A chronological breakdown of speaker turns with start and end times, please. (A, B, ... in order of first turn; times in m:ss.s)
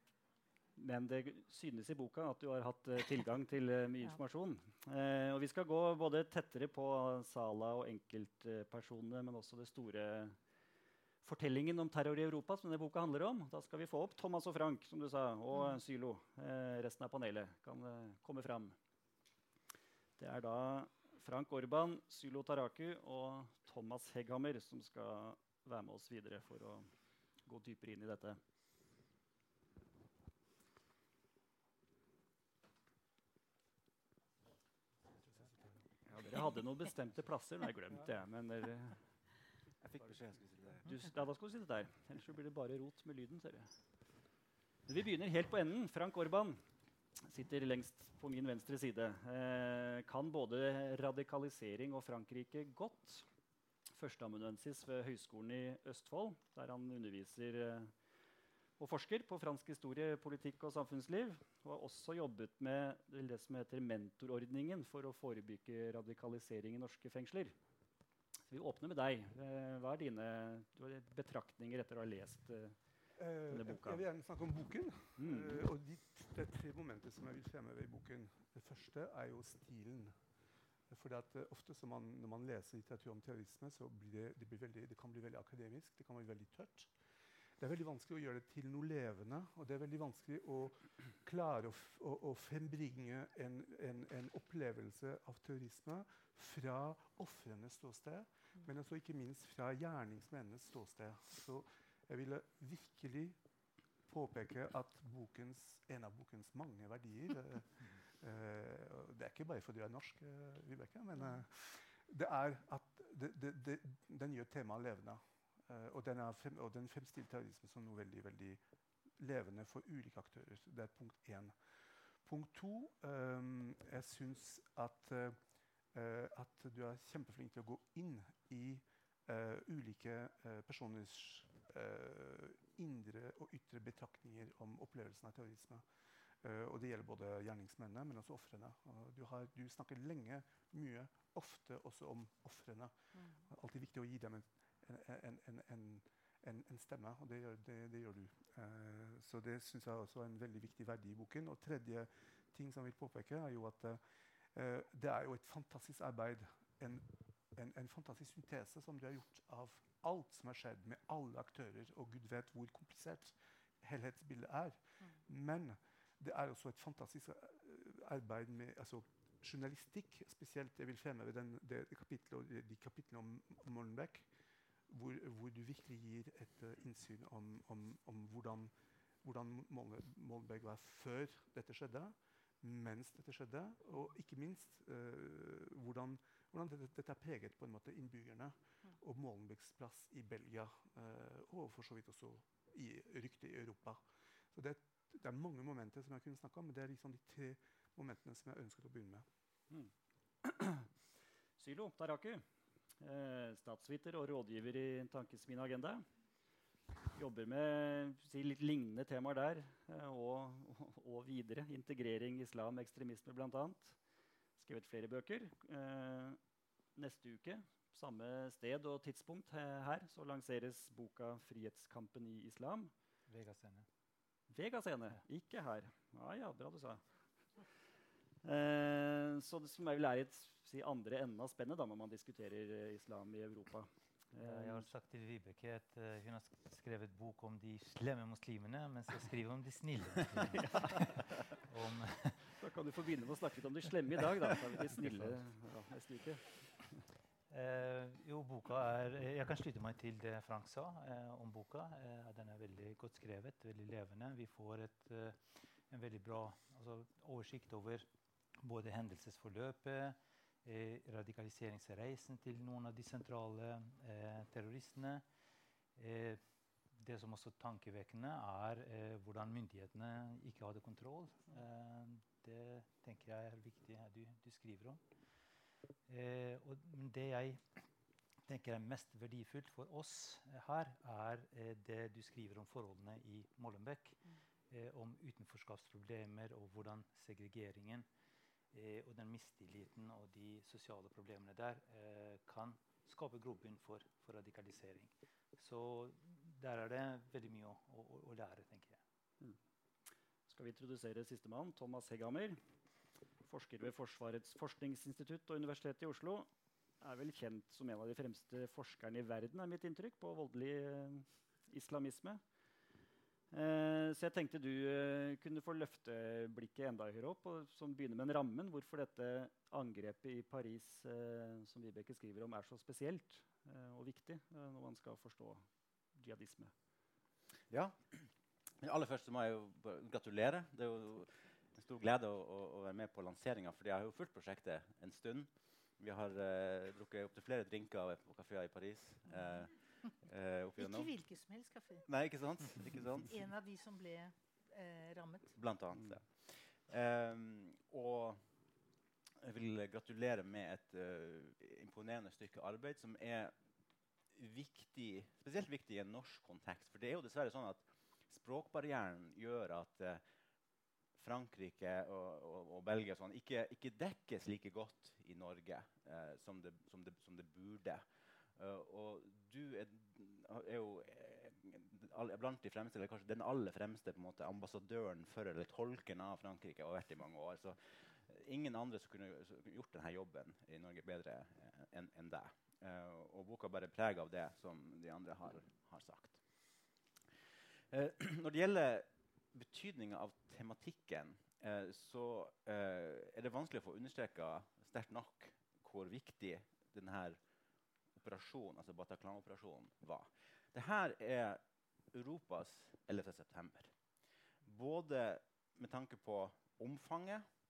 0:00.8-0:10.4 A
0:11.2-0:18.8 A
0:20.2-0:26.9 A
0:27.4-0:28.4 A
0:36.0-0:39.0 A
0:39.8-0:40.8 B
0:40.8-0:43.7 A
0:44.9-0:46.6 A
0:47.2-0:53.2 A
0:53.9-0:57.9 A
0:58.8-1:07.6 A
1:08.5-1:12.8 A
1:13.2-1:20.1 C
1:13.5-1:14.0 A
1:15.2-1:15.6 A
1:20.9-1:26.9 C
1:27.6-1:43.4 C
1:44.1-1:58.6 C
1:59.2-2:05.4 C
2:05.9-2:15.8 C
2:16.4-2:22.9 C
2:23.1-2:23.4 D
2:23.4-2:34.0 C
2:34.5-2:54.3 C
2:54.9-3:14.0 C
3:14.5-3:19.2 C
3:20.4-3:20.9 A
3:21.6-3:22.4 A
3:23.0-3:26.0 A
3:27.1-3:34.0 A
3:34.6-3:36.4 A
3:37.0-3:42.9 A
3:43.3-3:43.9 E
3:44.5-3:47.0 A
3:48.4-3:54.9 A
3:54.4-4:01.0 E
4:00.5-4:01.2 A
4:01.6-4:02.5 E
4:02.5-4:07.0 A
4:07.5-4:18.0 E
4:18.6-4:25.2 E
4:26.0-4:35.0 E
4:36.1-4:37.9 E
4:38.4-4:48.1 E
4:48.7-4:59.0 E
5:00.5-5:02.6 A
5:03.4-5:06.5 A
5:07.0-5:12.4 A
5:13.5-5:26.7 A
5:27.7-5:28.3 B
5:28.8-5:41.1 B
5:40.8-5:42.0 D
5:42.0-5:43.4 B
5:43.3-5:45.5 D
5:45.6-5:48.4 B
5:49.4-5:53.5 B
5:54.3-6:00.2 B
6:01.1-6:26.4 B
6:27.9-6:37.4 B
6:38.2-6:43.9 B
6:44.6-6:47.4 B